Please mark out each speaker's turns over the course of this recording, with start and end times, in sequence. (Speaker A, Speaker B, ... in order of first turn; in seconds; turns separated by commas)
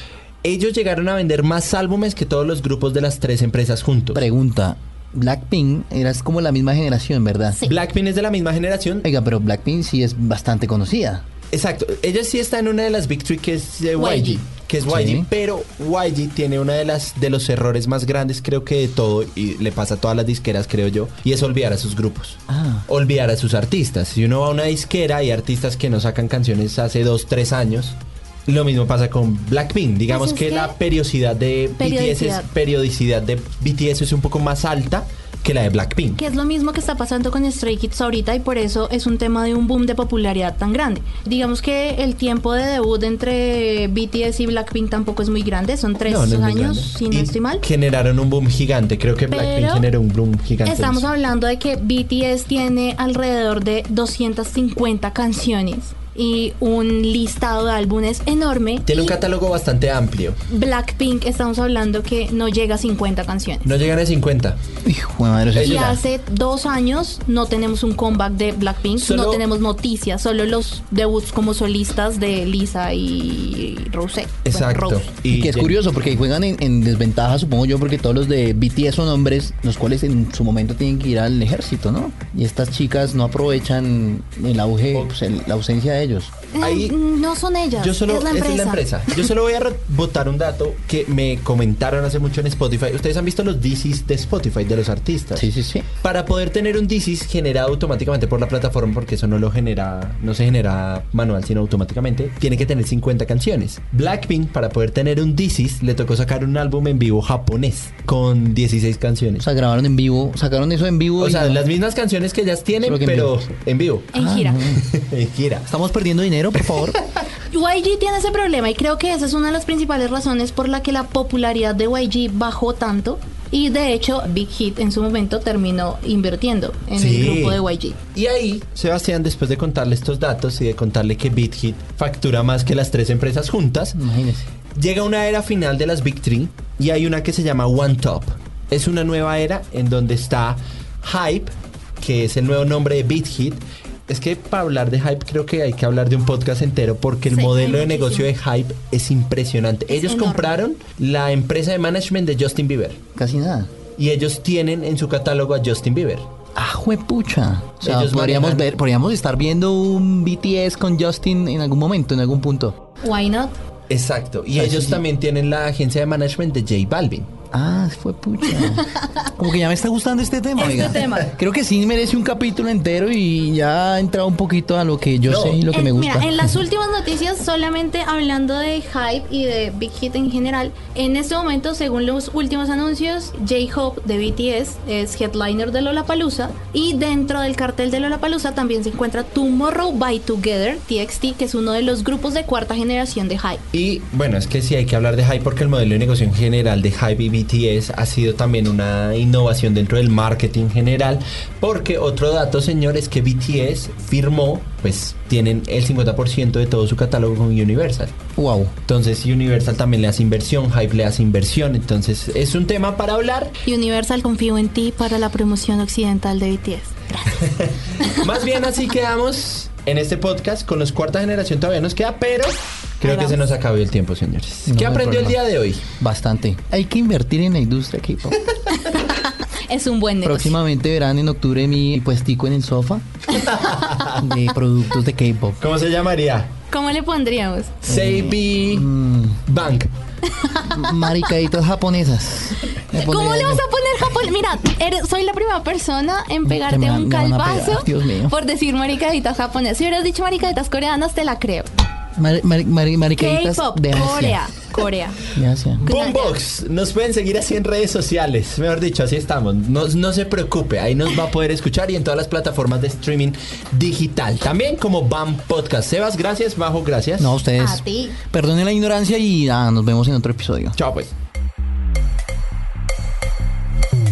Speaker A: 0.4-4.2, Speaker B: 4.1-7.6, Speaker C: 7.5-7.8, Speaker A: 7.6-9.1, Speaker B: 9.0-11.2, Speaker A: 11.5-36.2, Speaker C: 14.0-14.4, Speaker B: 14.8-15.3, Speaker B: 22.5-22.9, Speaker C: 30.1-30.8, Speaker C: 31.8-32.5, Speaker C: 36.2-47.6, Speaker A: 46.1-51.1, Speaker C: 49.3-49.9, Speaker C: 50.6-59.2, Speaker A: 58.8-60.4, Speaker C: 60.5-63.7, Speaker A: 63.6-64.6, Speaker B: 64.8-66.0, Speaker A: 65.5-66.0, Speaker C: 65.6-75.1, Speaker A: 69.0-69.4, Speaker A: 74.4-75.8, Speaker B: 75.3-86.3, Speaker C: 86.5-89.2, Speaker A: 86.6-87.0, Speaker A: 87.8-95.5, Speaker B: 95.3-95.9, Speaker A: 96.0-109.4, Speaker B: 109.4-111.6, Speaker A: 111.2-114.1, Speaker B: 112.8-113.3, Speaker C: 114.1-114.6, Speaker B: 114.1-114.8, Speaker A: 114.8-115.7, Speaker B: 115.7-117.0, Speaker C: 117.5-128.0, Speaker A: 126.9-127.6, Speaker A: 128.1-134.0, Speaker B: 133.9-134.4, Speaker A: 134.8-153.0, Speaker C: 147.3-148.3, Speaker C: 149.9-150.6, Speaker B: 153.2-153.7, Speaker A: 153.9-156.3, Speaker B: 156.6-162.8, Speaker A: 157.8-158.7, Speaker C: 163.0-163.5, Speaker A: 163.9-167.3, Speaker B: 164.5-165.0, Speaker B: 167.5-176.5, Speaker C: 170.6-171.3, Speaker A: 175.2-175.6, Speaker C: 175.7-193.6, Speaker A: 193.7-208.1, Speaker B: 208.4-208.7, Speaker A: 208.8-213.5, Speaker C: 213.6-218.3, Speaker A: 217.5-225.9, Speaker C: 223.0-223.4, Speaker B: 224.7-225.4, Speaker B: 226.0-228.4, Speaker C: 228.7-230.6, Speaker B: 230.2-233.0, Speaker A: 233.6-234.2, Speaker B: 234.0-235.6, Speaker A: 235.6-236.5, Speaker C: 236.7-237.8, Speaker A: 237.8-238.8, Speaker B: 237.9-239.4, Speaker A: 239.4-239.9, Speaker C: 240.3-241.3, Speaker B: 240.7-243.6, Speaker C: 242.8-251.7, Speaker B: 246.4-248.3, Speaker B: 252.2-254.4, Speaker C: 253.2-255.2, Speaker B: 255.3-255.8, Speaker C: 255.8-256.4, Speaker A: 255.8-267.3, Speaker B: 267.2-270.8, Speaker C: 267.6-268.2, Speaker A: 270.8-271.1